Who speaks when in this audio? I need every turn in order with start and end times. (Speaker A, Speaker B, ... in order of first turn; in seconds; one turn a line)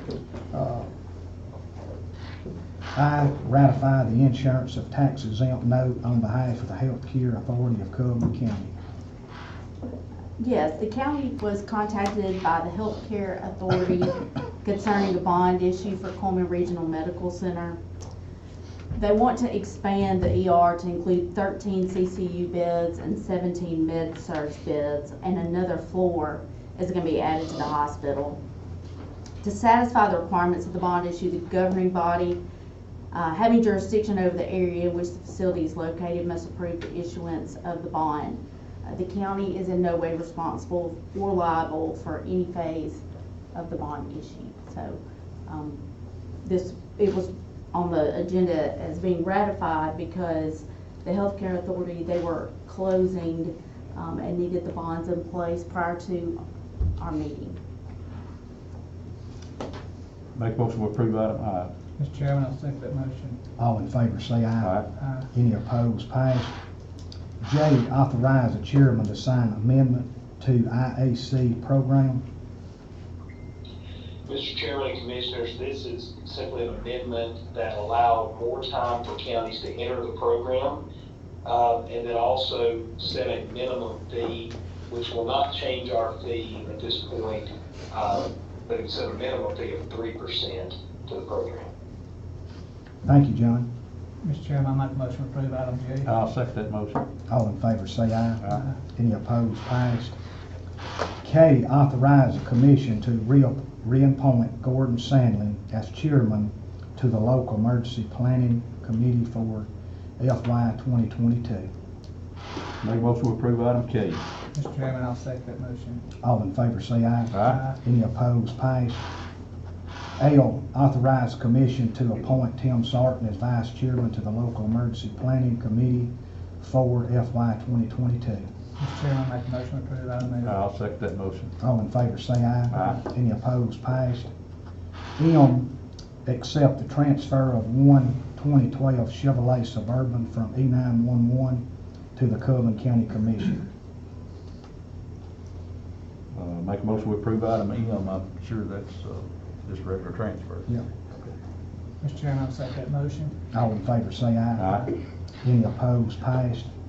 Speaker A: 0.5-0.9
Speaker A: 2.9-8.7
Speaker B: 10.4-17.8
Speaker B: 18.9-28.4
Speaker B: 29.4-32.4
Speaker B: 33.1-45.8
Speaker B: 46.4-56.4
Speaker B: 57.0-57.6
Speaker C: 60.3-61.7
Speaker D: 62.0-63.4
Speaker A: 63.6-66.5
Speaker C: 64.6-64.8
Speaker D: 65.0-65.3
Speaker A: 67.4-72.2
Speaker E: 74.2-80.8
Speaker E: 81.4-91.7
Speaker A: 93.0-93.7
Speaker D: 94.2-96.1
Speaker C: 96.0-97.0
Speaker A: 97.3-100.2
Speaker A: 101.2-111.7
Speaker C: 112.8-114.2
Speaker D: 114.5-116.0
Speaker A: 116.2-119.0
Speaker C: 117.3-117.6
Speaker D: 117.5-117.8
Speaker A: 120.2-128.5
Speaker D: 128.8-130.6
Speaker C: 130.4-131.5
Speaker A: 131.6-134.3
Speaker C: 132.7-133.0
Speaker A: 135.2-135.7
Speaker A: 136.2-143.6
Speaker C: 146.3-151.3
Speaker D: 152.0-153.3
Speaker A: 153.5-154.9
Speaker C: 154.6-154.9
Speaker A: 155.4-156.7